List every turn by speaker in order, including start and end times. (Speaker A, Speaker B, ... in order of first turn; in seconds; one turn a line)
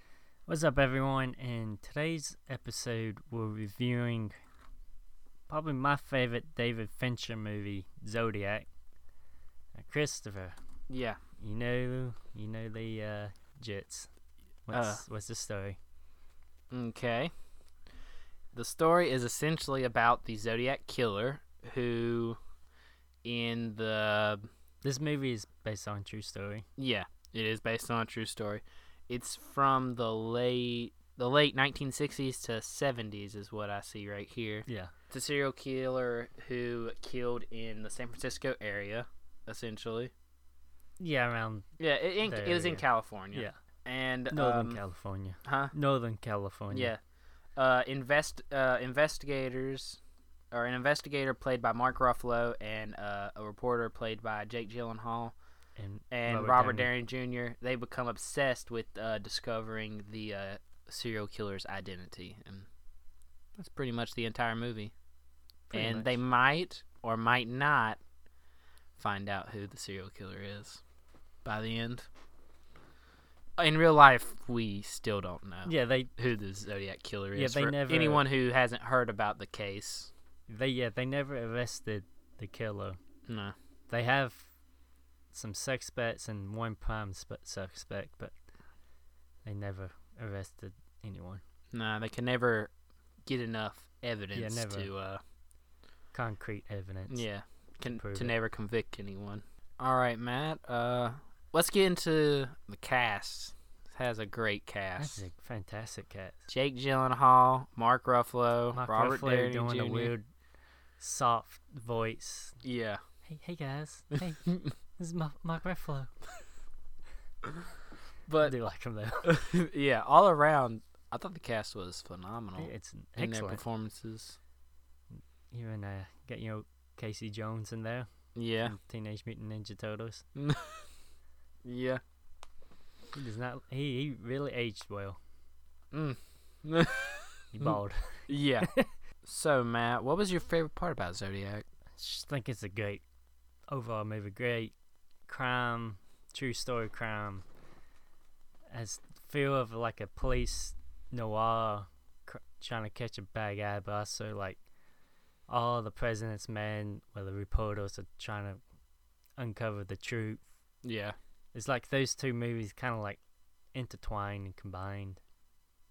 Speaker A: 0.5-4.4
Speaker A: 5.5-8.7
Speaker A: 9.8-10.6
Speaker B: 10.9-11.2
Speaker A: 11.4-14.1
Speaker A: 14.7-15.8
Speaker B: 14.7-15.0
Speaker B: 16.7-17.3
Speaker B: 18.5-22.4
Speaker B: 23.2-24.5
Speaker A: 24.8-26.7
Speaker B: 26.8-40.1
Speaker A: 34.7-34.9
Speaker A: 41.0-41.7
Speaker B: 41.8-44.8
Speaker A: 42.2-43.5
Speaker A: 44.3-46.9
Speaker B: 45.5-45.7
Speaker B: 46.7-47.0
Speaker B: 47.6-50.0
Speaker B: 50.5-55.4
Speaker A: 55.8-56.9
Speaker B: 56.1-62.7
Speaker B: 63.6-64.9
Speaker A: 65.7-66.2
Speaker B: 65.7-68.0
Speaker B: 69.0-70.8
Speaker B: 71.5-72.1
Speaker B: 73.6-80.1
Speaker A: 75.7-76.1
Speaker A: 77.3-78.2
Speaker A: 80.5-83.0
Speaker B: 83.3-83.5
Speaker A: 83.9-84.5
Speaker A: 85.3-88.3
Speaker A: 89.5-91.4
Speaker B: 91.7-92.7
Speaker B: 93.3-95.2
Speaker A: 94.3-94.9
Speaker A: 96.1-97.2
Speaker B: 97.1-105.2
Speaker A: 97.9-98.3
Speaker A: 105.0-106.5
Speaker B: 106.5-110.1
Speaker A: 108.7-110.3
Speaker A: 111.0-112.6
Speaker B: 112.6-113.0
Speaker A: 113.3-116.1
Speaker B: 118.3-118.5
Speaker A: 118.4-119.3
Speaker B: 119.2-124.4
Speaker A: 122.6-123.6
Speaker A: 125.5-128.1
Speaker B: 128.4-128.8
Speaker A: 128.6-130.2
Speaker B: 130.4-130.8
Speaker B: 131.7-132.0
Speaker A: 133.1-135.2
Speaker B: 135.9-138.7
Speaker A: 137.5-138.9
Speaker B: 139.3-141.6
Speaker A: 142.0-143.0
Speaker A: 143.7-144.8
Speaker A: 145.3-147.4
Speaker A: 148.7-154.6
Speaker A: 155.5-158.6
Speaker A: 159.4-160.4
Speaker B: 160.8-161.2
Speaker A: 161.5-163.2
Speaker A: 163.7-165.2